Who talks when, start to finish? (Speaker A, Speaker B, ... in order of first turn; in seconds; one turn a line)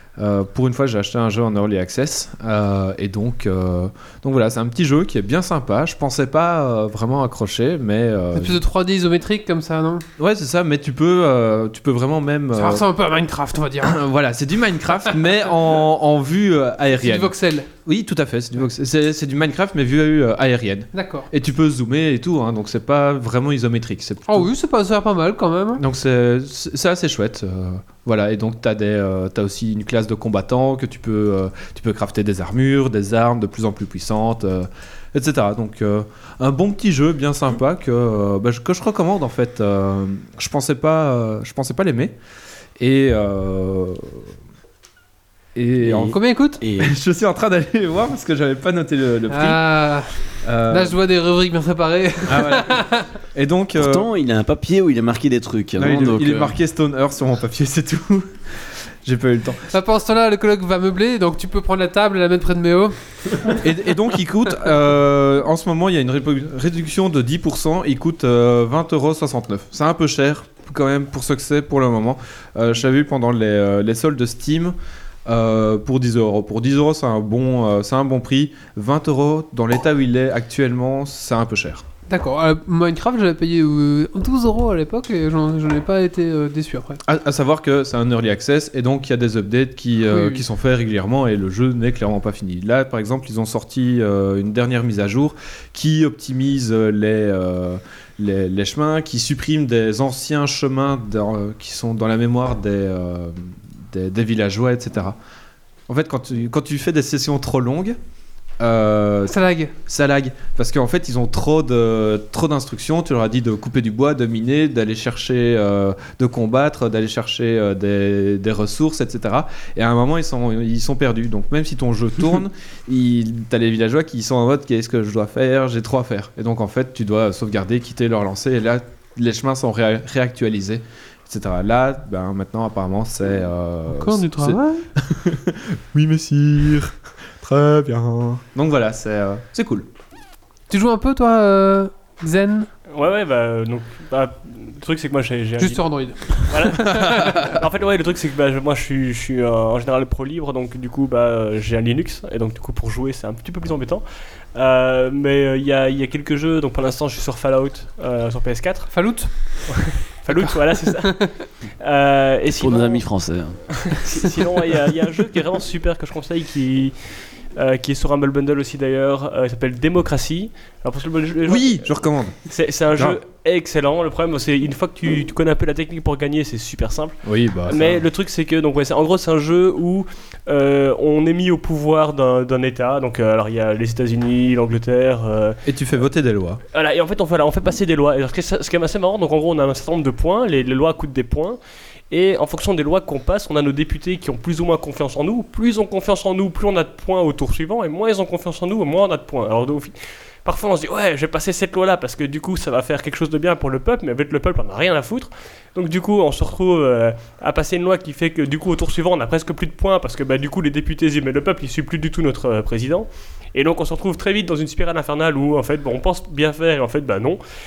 Speaker A: 0.2-8.6
Speaker B: 8.3-10.0
Speaker A: 10.2-12.8
Speaker B: 12.5-14.0
Speaker A: 13.8-24.5
Speaker B: 16.9-17.7
Speaker B: 20.9-21.3
Speaker B: 24.3-25.8
Speaker A: 25.8-42.1
Speaker A: 42.8-44.2
Speaker A: 45.5-46.2
Speaker C: 45.8-47.0
Speaker B: 46.1-46.6
Speaker A: 46.8-49.6
Speaker B: 49.3-50.1
Speaker A: 50.4-51.0
Speaker B: 50.7-53.1
Speaker A: 52.3-54.1
Speaker C: 53.8-56.6
Speaker A: 55.8-59.6
Speaker B: 59.7-63.6
Speaker A: 63.5-74.7
Speaker A: 75.2-81.8
Speaker B: 82.1-87.0
Speaker A: 87.0-103.3
Speaker B: 90.1-90.4
Speaker A: 103.9-105.2
Speaker A: 105.9-108.0
Speaker A: 108.6-139.9
Speaker B: 109.2-109.7
Speaker B: 133.9-134.8
Speaker B: 140.7-142.7
Speaker D: 142.9-154.0
Speaker B: 145.6-147.4
Speaker D: 154.5-158.9
Speaker B: 158.9-161.2
Speaker D: 159.7-163.0
Speaker C: 162.5-163.6
Speaker D: 163.9-166.9
Speaker D: 167.5-171.9
Speaker A: 171.4-172.3
Speaker D: 172.5-185.6
Speaker A: 177.2-178.0
Speaker A: 185.6-186.6
Speaker D: 186.7-191.6
Speaker D: 192.1-217.4